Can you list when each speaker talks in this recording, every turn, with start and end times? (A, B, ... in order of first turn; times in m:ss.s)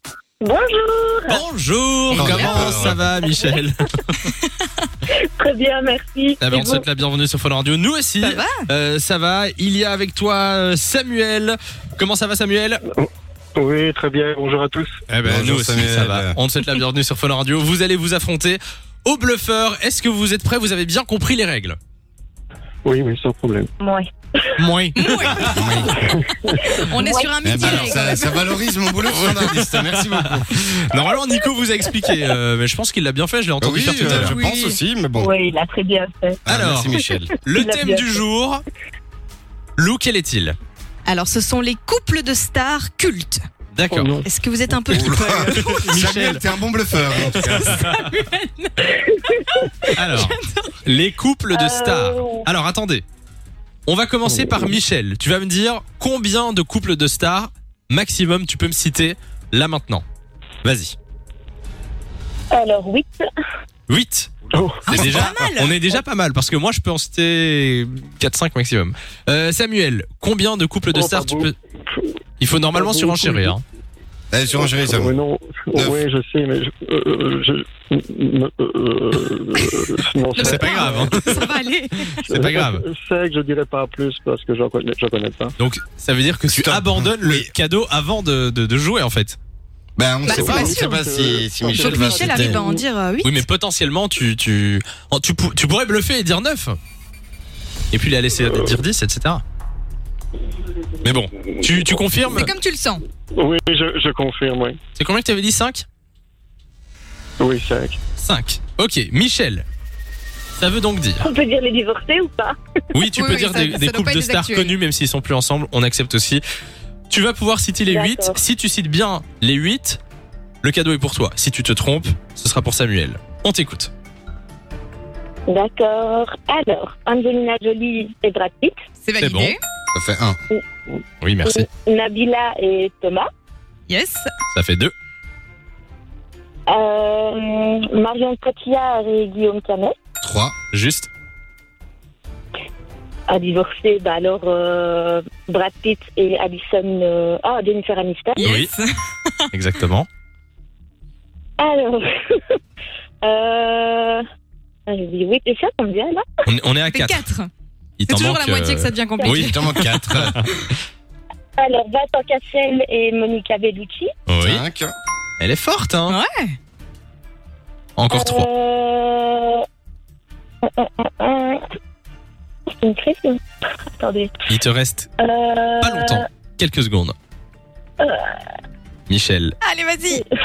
0:00.4-0:01.4 A
0:01.3-0:04.3 B
0:02.1-0:03.0 C
0:02.2-0:03.0 D
0:03.2-0:03.6 A
0:05.1-0:06.8 A
0:06.4-0:12.8 B
0:08.2-0:08.7 C
0:12.9-0:14.9 E
0:15.1-0:21.8 B
0:15.2-0:16.4 D
0:22.8-0:23.7 E
0:23.8-0:24.6 A
0:24.6-0:25.8 B
0:25.0-0:25.9 C
0:25.3-0:26.0 D
0:26.0-0:26.6 E
0:26.5-0:28.1 A
0:26.7-0:28.4 C
0:27.4-0:30.5 D
0:29.1-0:34.4 B
0:33.6-0:35.3 D
0:34.0-0:34.8 C
0:35.2-0:36.4 A
0:36.5-0:37.4 D
0:36.5-0:38.6 B
0:37.6-0:38.2 A
0:39.8-0:40.6 B
0:41.1-0:43.4 C
0:43.7-0:44.2 B
0:43.9-0:44.3 E
0:44.2-0:45.9 C
0:44.9-0:47.9 D
0:45.0-0:46.4 B
0:47.2-0:50.8 C
0:47.3-0:48.1 B
0:49.9-0:53.0 B
0:51.5-0:52.5 A
0:53.9-1:00.0 B
0:54.3-0:54.6 E
1:00.6-1:01.0 B
1:02.5-1:03.2 A
1:03.9-1:04.3 B
1:04.5-1:05.1 E
1:04.9-1:05.8 C
1:04.9-1:11.6 B
1:05.0-1:05.5 D
1:10.9-1:12.0 E
1:12.4-1:13.6 B
1:12.7-1:13.6 E
1:14.3-1:15.1 D
1:14.6-1:21.2 E
1:20.3-1:22.2 C
1:20.4-1:22.8 B
1:22.2-1:25.5 E
1:25.6-1:29.4 B
1:26.5-1:27.5 D
1:30.0-1:32.6 D
1:30.2-1:30.9 C
1:30.3-1:32.8 E
1:31.7-1:33.4 C
1:33.2-1:36.8 B
1:37.9-1:39.4 B
1:41.0-1:42.5 B
1:42.3-1:43.0 C
1:43.3-1:44.8 E
1:45.0-1:45.9 B
1:47.4-1:48.0 E
1:48.2-1:49.7 B
1:50.6-1:51.3 B
1:51.2-1:52.6 A
1:52.9-1:56.4 B
1:53.1-1:54.8 C
1:57.1-2:00.0 B
1:57.9-1:58.4 A
2:00.6-2:03.9 B
2:05.5-2:08.8 A
2:09.0-2:09.6 C
2:09.2-2:09.6 B
2:09.9-2:10.4 D
2:11.2-2:11.7 B
2:11.4-2:13.3 A
2:13.9-2:14.3 C
2:14.5-2:14.9 B
2:16.7-2:19.9 A
2:20.2-2:20.6 D
2:20.7-2:21.1 B
2:23.3-2:28.4 A
2:28.4-2:29.3 C
2:28.4-2:28.7 B
2:29.5-2:30.1 B
2:31.6-2:32.6 A
2:33.2-2:34.2 A
2:34.9-2:36.2 A
2:36.5-2:37.2 B
2:36.9-2:37.5 C
2:38.0-2:40.5 B
2:38.1-2:39.6 C
2:39.2-2:40.6 D
2:41.6-2:44.1 A
2:44.3-2:44.6 B
2:44.4-2:44.9 D
2:45.4-2:46.2 B
2:46.1-2:46.6 C
2:48.0-2:48.5 B
2:48.1-2:49.6 A
2:50.6-2:51.6 A
2:52.8-2:53.4 A
2:54.0-2:54.3 A
2:54.5-2:55.1 B
2:55.2-2:56.2 A
2:55.8-2:57.2 B
2:58.0-2:58.3 A
2:59.1-2:59.6 B
2:59.6-3:00.2 C